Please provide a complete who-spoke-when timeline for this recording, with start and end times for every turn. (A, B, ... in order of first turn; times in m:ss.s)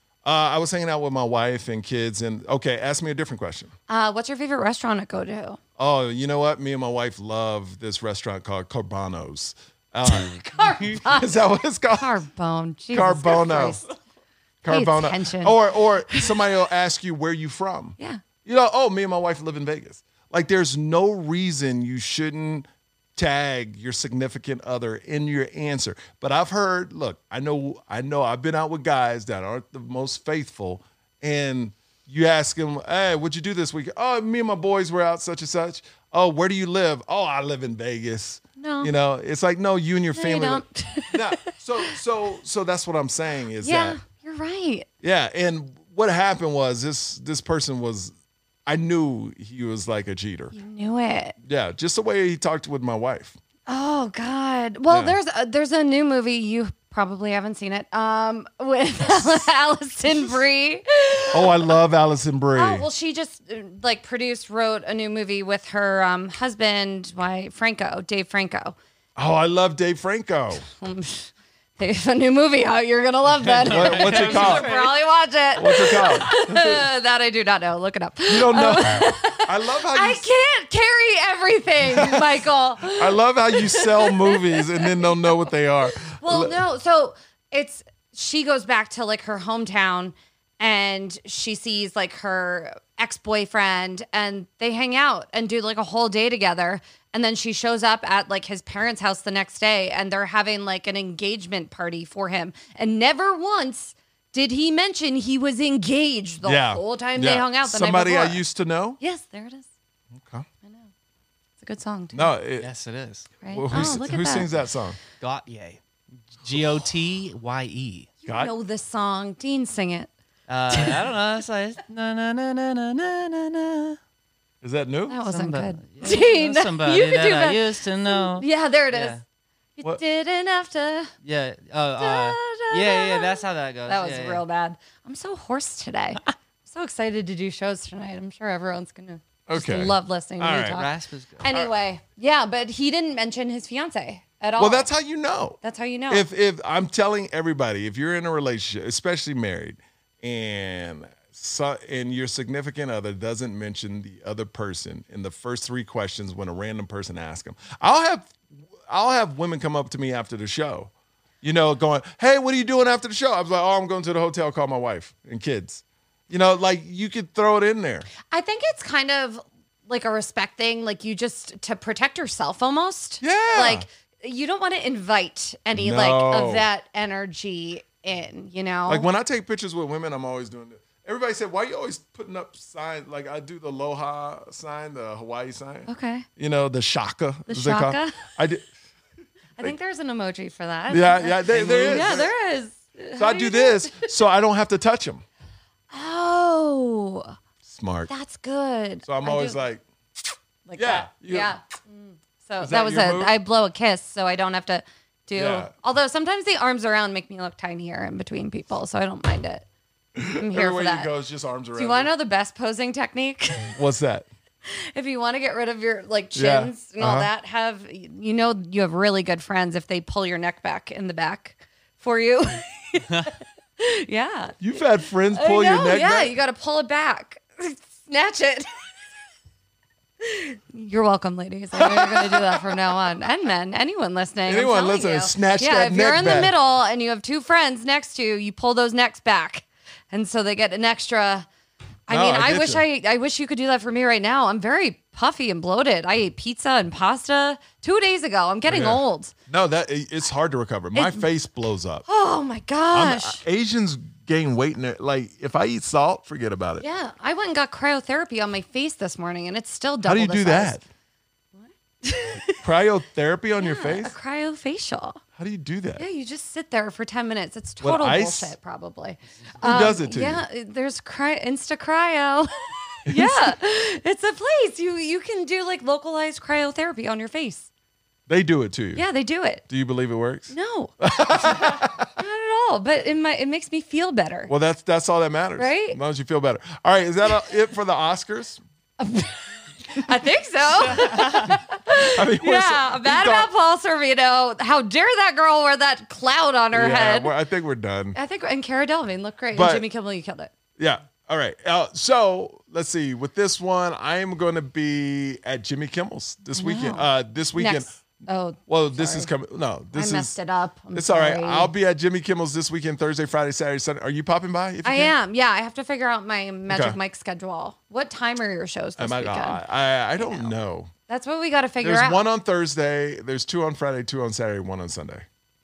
0:00.2-0:03.7 A
0:03.9-0:05.6 B
0:05.8-0:12.1 A
0:10.0-0:11.4 B
0:12.0-0:13.9 B
0:12.9-0:13.8 A
0:14.6-0:44.0 A
0:14.7-0:16.3 B
0:38.6-0:38.9 B
0:40.1-0:41.9 B
0:43.6-0:44.9 B
0:45.0-0:48.1 A
0:48.6-0:50.5 A
0:50.5-0:51.4 B
0:51.4-0:53.4 A
0:53.7-1:01.7 B
0:54.9-0:55.2 A
1:01.3-1:02.8 A
1:02.6-1:08.8 B
1:09.2-1:10.6 A
1:10.7-1:25.2 B
1:13.4-1:15.0 C
1:13.6-1:14.7 A
1:15.6-1:16.8 A
1:18.3-1:20.3 A
1:21.8-1:22.3 A
1:22.9-1:26.6 A
1:25.9-1:48.4 B
1:46.4-1:49.0 A
1:49.0-1:49.7 B
1:50.2-1:50.4 A
1:51.6-1:52.2 B
1:52.1-1:52.7 A
1:52.6-1:53.3 C
1:53.4-1:54.5 B
1:53.5-1:55.0 A
1:55.2-1:55.8 C
1:56.3-1:58.1 C
1:58.2-2:00.1 B
2:00.5-2:04.0 C
2:00.7-2:01.0 B
2:04.6-2:05.2 A
2:05.1-2:09.2 B
2:05.3-2:09.2 C
2:09.8-2:11.1 B
2:11.2-2:14.4 C
2:12.0-2:24.9 B
2:19.5-2:20.8 A
2:20.7-2:21.4 C
2:24.6-2:40.9 A
2:25.6-2:26.2 B
2:41.4-2:48.1 A
2:48.3-2:59.1 B
2:53.2-2:53.8 A
2:55.7-2:56.6 A
2:58.9-3:08.6 A
3:05.9-3:06.3 B
3:07.5-3:08.2 B
3:09.6-3:14.1 B
3:10.9-3:12.3 A
3:11.5-3:12.1 C
3:13.2-3:15.2 A
3:15.9-3:17.3 B
3:17.6-3:18.1 A
3:18.1-3:19.6 B
3:19.0-3:19.8 A
3:20.7-3:29.6 B
3:20.8-3:21.5 A
3:22.6-3:23.3 A
3:25.3-3:25.7 A
3:30.1-3:32.1 A
3:30.3-3:31.1 B
3:31.7-3:33.7 B
3:33.7-3:34.3 A
3:34.7-3:44.6 B
3:36.3-3:37.3 A
3:44.6-3:46.3 A
3:45.3-3:48.7 B
3:50.2-4:01.5 B
3:51.7-3:52.9 A
3:54.5-3:56.6 A
4:02.1-4:09.3 B
4:02.1-4:02.8 A
4:08.6-4:12.0 A
4:10.9-4:11.3 B
4:12.1-4:13.4 B
4:12.9-4:16.8 A
4:16.8-4:20.8 B
4:20.0-4:20.8 A
4:21.6-4:22.6 B
4:22.6-4:24.1 A
4:23.6-4:25.2 B
4:25.4-4:26.0 A
4:26.0-4:37.7 B
4:27.8-4:28.5 A
4:29.6-4:30.4 A
4:33.0-4:33.5 A
4:38.3-4:39.0 A
4:38.9-4:39.6 B
4:39.7-4:42.1 A
4:40.5-4:44.5 B
4:44.5-4:48.6 A
4:45.6-4:46.0 B
4:49.0-4:49.4 B
4:49.9-4:57.4 B
4:52.1-4:53.5 A
4:56.7-4:58.2 A
4:58.1-5:00.5 B
4:59.5-4:59.8 A
5:00.8-5:07.9 A
5:06.5-5:09.3 B
5:08.7-5:10.3 A
5:09.9-5:11.7 B
5:10.9-5:15.1 A
5:14.8-5:19.6 B
5:16.7-5:17.0 A
5:19.0-5:20.9 A
5:20.2-5:20.5 B
5:21.1-5:22.2 B
5:21.8-5:25.2 A